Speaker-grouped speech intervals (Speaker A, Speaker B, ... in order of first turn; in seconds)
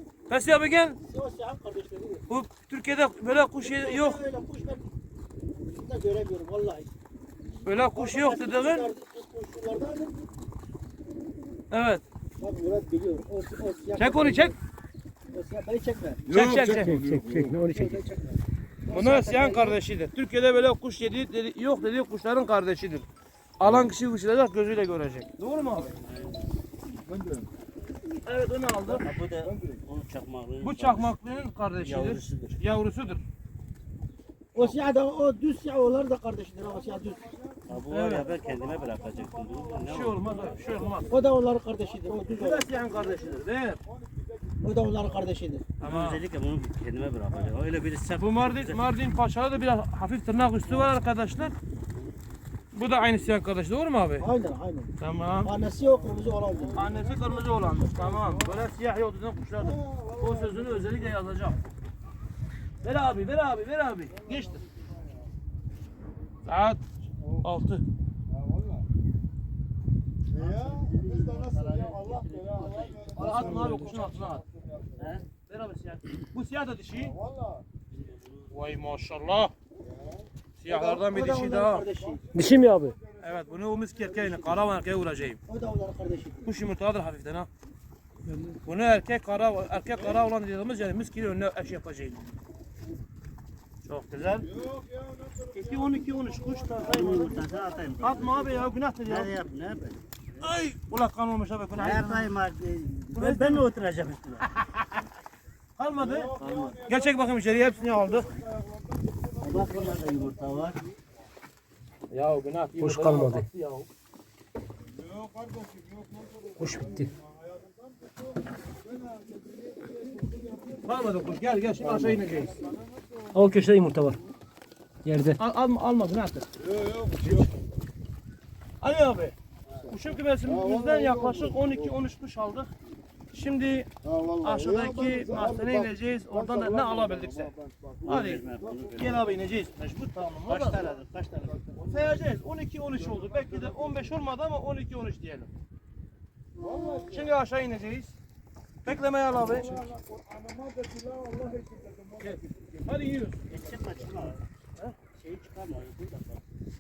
Speaker A: 0.3-1.0, 2.3-4.2, 7.6-8.9, 11.7-12.0, 14.0-14.5, 16.3-17.0, 18.9-23.1, 23.6-25.9, 28.2-29.0, 30.6-33.2, 37.8-38.3, 39.9-41.1, 42.2-43.8, 45.8-46.2, 48.2-51.6, 52.7-54.2, 55.0-55.5, 56.8-61.6, 62.8-64.6, 66.5-66.8, 67.4-67.8, 73.1-74.4, 75.5-77.1, 78.5-79.5, 80.6-81.9, 82.5-85.4, 86.5-87.5, 88.5-92.2, 93.8-94.5, 95.5-97.4, 98.0-99.3, 100.4-102.3, 103.1-103.6, 105.8-106.3, 106.9-108.3, 112.1-113.9, 120.8-122.5, 125.4-126.5, 128.8-129.3, 129.9-132.7, 133.3-133.9, 134.4-137.5, 138.1-138.4, 139.0-140.8, 141.8-145.5, 147.0-148.1, 148.8-149.8, 152.2-153.7
Speaker B: 1.0-2.3, 3.6-4.9, 5.6-6.9, 7.9-10.2, 12.4-14.6, 15.3-16.2, 17.4-19.8, 34.5-37.3, 41.1-42.7, 44.6-45.6, 54.2-56.8, 73.2-73.9, 80.7-82.2, 84.1-84.7, 85.5-86.5
Speaker C: 16.2-17.6, 27.0-27.5, 29.4-29.8, 36.8-37.6, 38.4-41.1, 42.1-43.4, 43.9-44.5, 56.8-58.6, 59.9-61.0, 68.3-68.8, 70.3-75.2, 77.0-77.6, 79.8-80.2, 82.0-83.9, 94.5-98.4, 106.0-110.4, 115.0-118.2, 118.8-120.8, 121.8-123.4, 126.6-127.6, 130.4-131.9, 134.0-139.3, 141.5-142.2, 143.0-144.0, 146.6-147.2, 149.3-152.9
Speaker D: 16.8-18.0, 82.4-82.9, 112.8-113.4, 116.6-117.0, 123.6-124.1, 125.1-125.3
Speaker E: 23.6-23.9, 25.8-26.5, 29.0-32.6, 37.7-40.3, 45.8-48.8, 70.3-73.8, 75.0-75.2, 77.9-78.5, 96.9-100.2, 101.8-104.5, 106.4-106.8, 109.4-110.8, 138.0-139.2, 140.4-141.9, 146.6-147.2, 153.5-154.4, 155.2-156.4